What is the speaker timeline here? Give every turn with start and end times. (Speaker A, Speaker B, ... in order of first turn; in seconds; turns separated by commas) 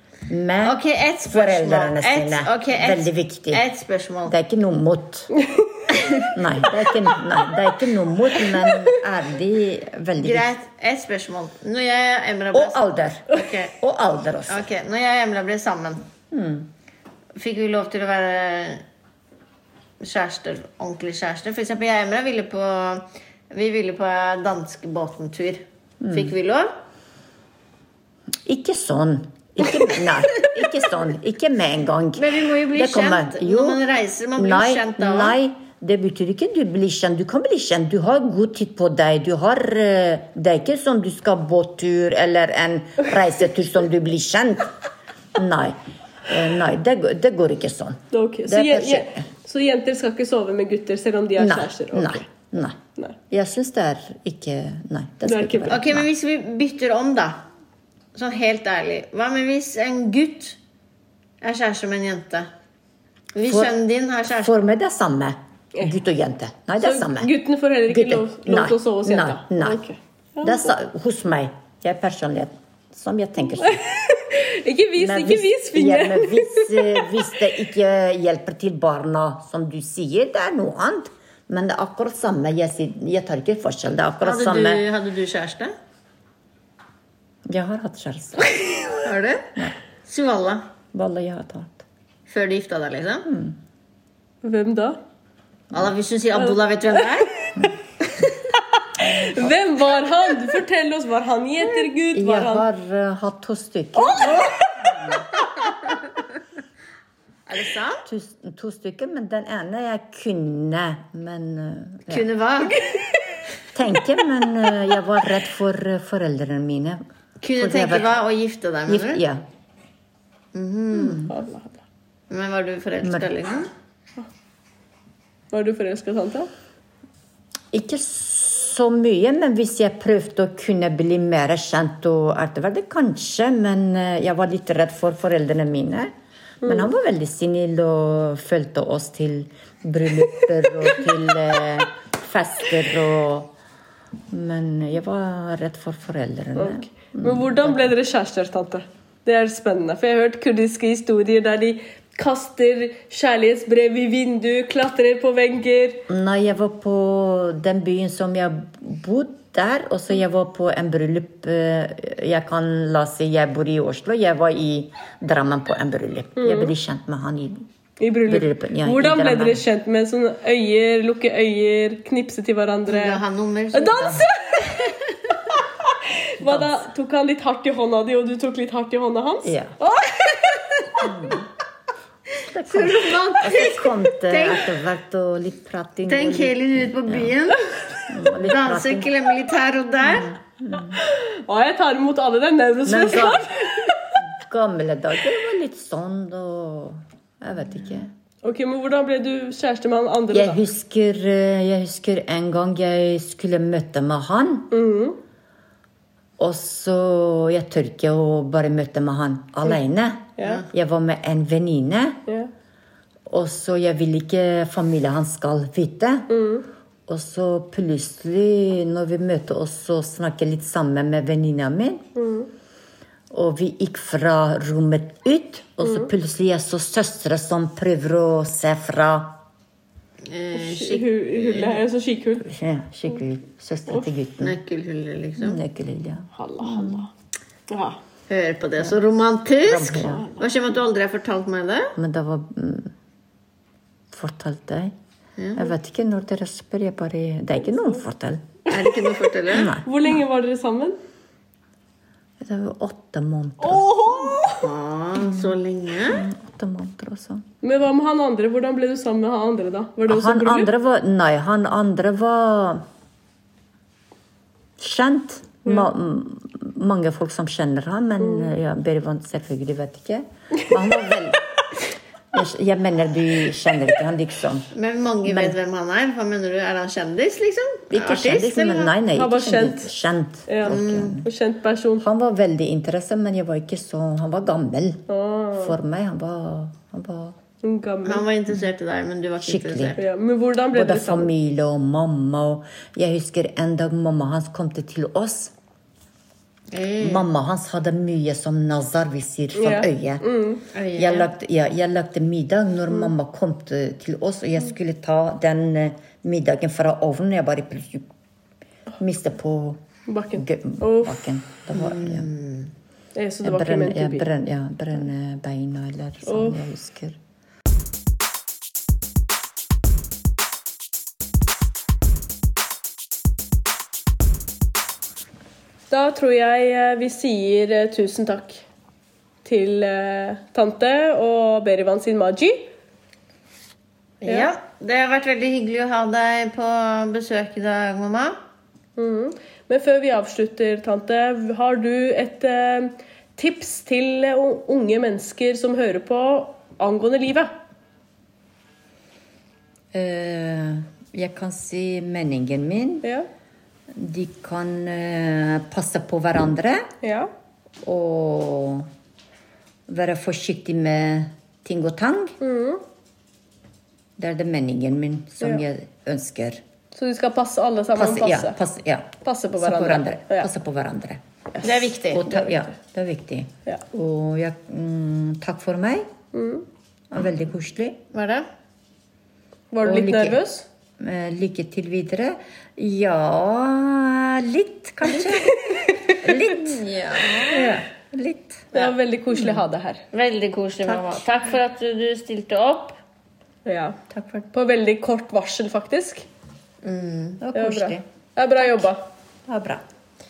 Speaker A: 0.3-3.6, Speaker B: 0.6-4.3, Speaker A: 4.3-5.3, Speaker C: 5.3-5.8, Speaker B: 6.0-6.3, Speaker A: 6.3-10.5, Speaker B: 10.2-13.8, Speaker A: 12.5-14.6, Speaker B: 14.5-16.1, Speaker A: 16.3-16.7, Speaker B: 17.3-18.8, Speaker B: 20.0-26.7, Speaker A: 26.0-26.3, Speaker A: 28.4-33.8, Speaker B: 32.1-35.4, Speaker A: 34.4-44.7, Speaker A: 45.3-49.2, Speaker C: 48.1-52.2, Speaker A: 51.4-52.8, Speaker A: 53.3-56.1, Speaker C: 55.2-55.8, Speaker B: 55.7-57.4, Speaker B: 58.1-60.6, Speaker B: 61.4-62.5, Speaker B: 63.3-64.5, Speaker A: 63.5-63.7, Speaker A: 64.2-67.3, Speaker C: 66.8-70.7, Speaker A: 67.8-69.8, Speaker A: 70.4-73.8, Speaker C: 73.5-77.2, Speaker A: 75.0-84.8, Speaker B: 84.2-85.7, Speaker A: 87.5-89.0, Speaker B: 89.0-90.6, Speaker A: 90.9-91.8, Speaker B: 92.3-93.3, Speaker A: 93.3-93.5, Speaker C: 94.4-95.0, Speaker B: 95.7-97.5, Speaker C: 98.9-102.7, Speaker A: 99.0-99.5, Speaker A: 101.7-104.5, Speaker C: 104.1-104.5, Speaker B: 107.5-108.0, Speaker A: 108.0-112.3, Speaker B: 112.1-113.0, Speaker A: 113.7-117.0, Speaker B: 117.4-119.2, Speaker A: 117.6-118.2, Speaker A: 118.9-119.4, Speaker B: 120.5-121.3, Speaker C: 121.1-121.8, Speaker B: 122.3-123.7, Speaker A: 123.0-123.3, Speaker C: 125.5-126.5, Speaker A: 127.7-143.5, Speaker C: 136.6-136.9, Speaker A: 144.3-147.9, Speaker C: 146.6-156.1, Speaker A: 156.1-167.7, Speaker C: 166.4-166.7, Speaker C: 168.0-181.1, Speaker A: 168.2-169.6, Speaker B: 172.9-174.3, Speaker A: 176.4-176.8, Speaker A: 179.4-179.8, Speaker A: 181.0-181.5, Speaker A: 182.5-187.3, Speaker B: 182.7-184.7, Speaker B: 186.1-187.9, Speaker A: 188.1-189.1, Speaker B: 188.4-190.3, Speaker A: 190.0-191.0, Speaker C: 191.0-194.1, Speaker A: 192.8-193.5, Speaker A: 194.2-198.1, Speaker C: 198.4-200.6, Speaker A: 200.3-204.7, Speaker C: 204.7-205.2, Speaker A: 206.4-212.2, Speaker C: 210.4-210.6, Speaker A: 213.3-216.3, Speaker C: 216.3-216.7, Speaker A: 217.1-222.0, Speaker C: 222.2-222.5, Speaker A: 223.3-229.4, Speaker C: 225.8-226.1, Speaker B: 230.2-231.8, Speaker C: 230.5-232.5, Speaker A: 232.4-234.6, Speaker B: 234.4-235.6, Speaker A: 235.4-237.1, Speaker C: 236.3-237.1, Speaker C: 237.7-238.0, Speaker B: 238.3-241.9, Speaker A: 239.6-240.3, Speaker A: 241.9-242.9, Speaker A: 244.1-244.9, Speaker B: 245.4-245.7, Speaker A: 245.5-248.4, Speaker B: 248.7-249.7, Speaker C: 248.7-249.2, Speaker A: 249.5-249.9, Speaker C: 249.8-251.0, Speaker A: 252.4-254.5, Speaker C: 253.6-254.7, Speaker B: 254.5-256.2, Speaker A: 255.2-255.5, Speaker A: 256.0-257.4, Speaker C: 257.6-260.7, Speaker A: 260.1-262.8, Speaker A: 264.8-271.4, Speaker C: 268.2-268.5, Speaker A: 272.3-274.7, Speaker B: 274.7-278.9, Speaker A: 275.2-275.6, Speaker A: 277.9-281.3, Speaker C: 279.1-279.9, Speaker C: 280.5-282.1, Speaker B: 280.7-281.2, Speaker A: 282.0-285.0, Speaker C: 285.1-285.8, Speaker A: 285.6-287.4, Speaker C: 287.6-288.3, Speaker B: 288.0-290.0, Speaker A: 289.4-290.0, Speaker C: 289.9-291.3, Speaker A: 290.7-295.5, Speaker B: 296.7-297.2, Speaker A: 297.0-300.2, Speaker C: 299.5-300.6, Speaker B: 300.7-301.3, Speaker A: 300.9-308.1, Speaker A: 309.0-309.8, Speaker C: 310.1-311.2, Speaker A: 310.3-312.3, Speaker B: 311.7-312.7, Speaker C: 313.1-314.3, Speaker A: 313.4-317.2, Speaker C: 316.2-316.6, Speaker C: 325.9-328.6, Speaker C: 329.4-332.7, Speaker B: 334.2-338.4, Speaker C: 339.0-347.5, Speaker A: 349.9-353.1, Speaker A: 353.9-356.9, Speaker C: 357.0-357.3, Speaker A: 357.8-358.9, Speaker A: 359.9-362.4, Speaker C: 362.4-362.8, Speaker A: 364.2-366.6, Speaker C: 366.9-368.6, Speaker A: 367.9-376.1, Speaker C: 369.2-370.5, Speaker B: 371.6-372.3, Speaker C: 376.3-376.6, Speaker A: 377.1-378.0, Speaker B: 378.1-378.5, Speaker C: 379.7-380.6, Speaker A: 379.8-380.4, Speaker A: 381.0-388.7, Speaker C: 385.2-386.3, Speaker B: 386.6-387.7, Speaker C: 388.7-390.0, Speaker A: 389.3-389.6, Speaker B: 390.1-393.0, Speaker A: 390.8-391.3, Speaker C: 393.6-394.0, Speaker A: 394.1-394.5, Speaker C: 394.5-396.2, Speaker B: 396.8-397.4, Speaker A: 397.4-398.0, Speaker C: 397.5-399.0, Speaker A: 398.6-398.9, Speaker A: 399.5-399.8